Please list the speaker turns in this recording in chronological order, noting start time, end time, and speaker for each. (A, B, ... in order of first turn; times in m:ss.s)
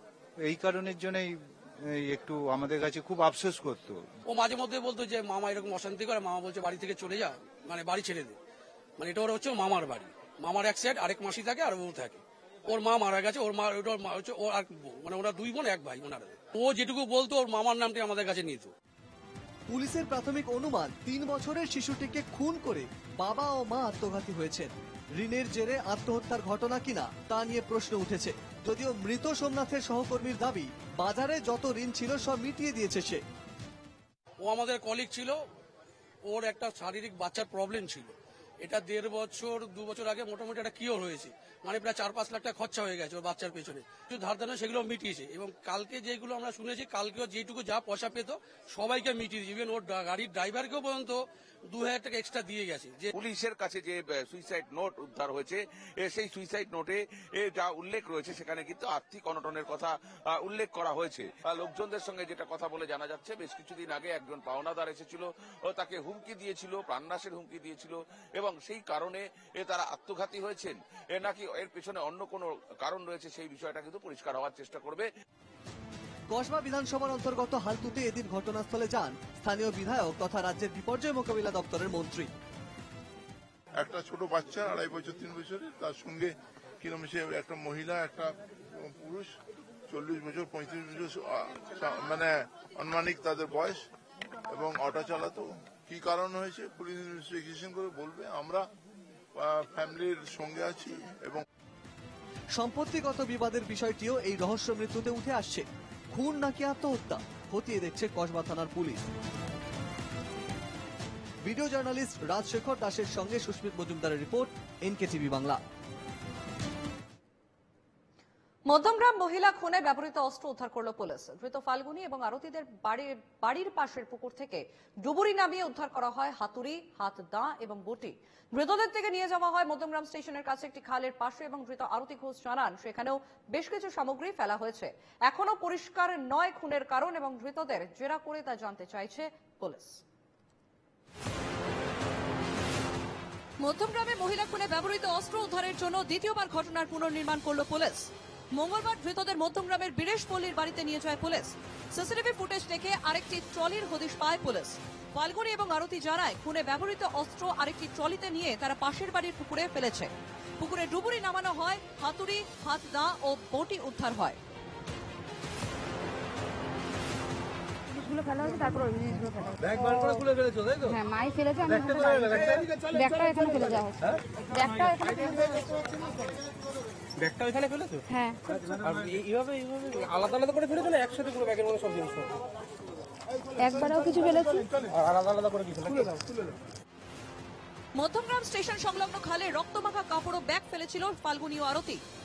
0:00.4-0:04.1 A
0:04.3-0:08.4 B
0:09.0-0:18.7 B
0:19.7-0:33.2 C
0:34.4-0:35.4 B
0:36.3-0:53.1 B
0:53.1-1:15.0 D
1:16.3-1:22.3 C
1:23.8-1:29.3 E
1:29.9-1:33.8 E
1:34.5-1:38.7 E
1:39.3-1:41.4 E
1:42.5-1:49.1 C
1:51.4-1:55.6 C
1:58.7-2:20.0 F
2:23.6-2:44.4 F
2:47.9-2:50.2 G
2:49.6-2:50.8 H
2:50.8-2:54.0 G
2:54.5-2:55.5 G
2:57.2-2:58.0 H
2:58.1-2:58.4 G
2:58.5-3:02.3 H
3:03.6-3:04.7 G
3:05.0-3:06.2 H
3:08.0-3:12.0 F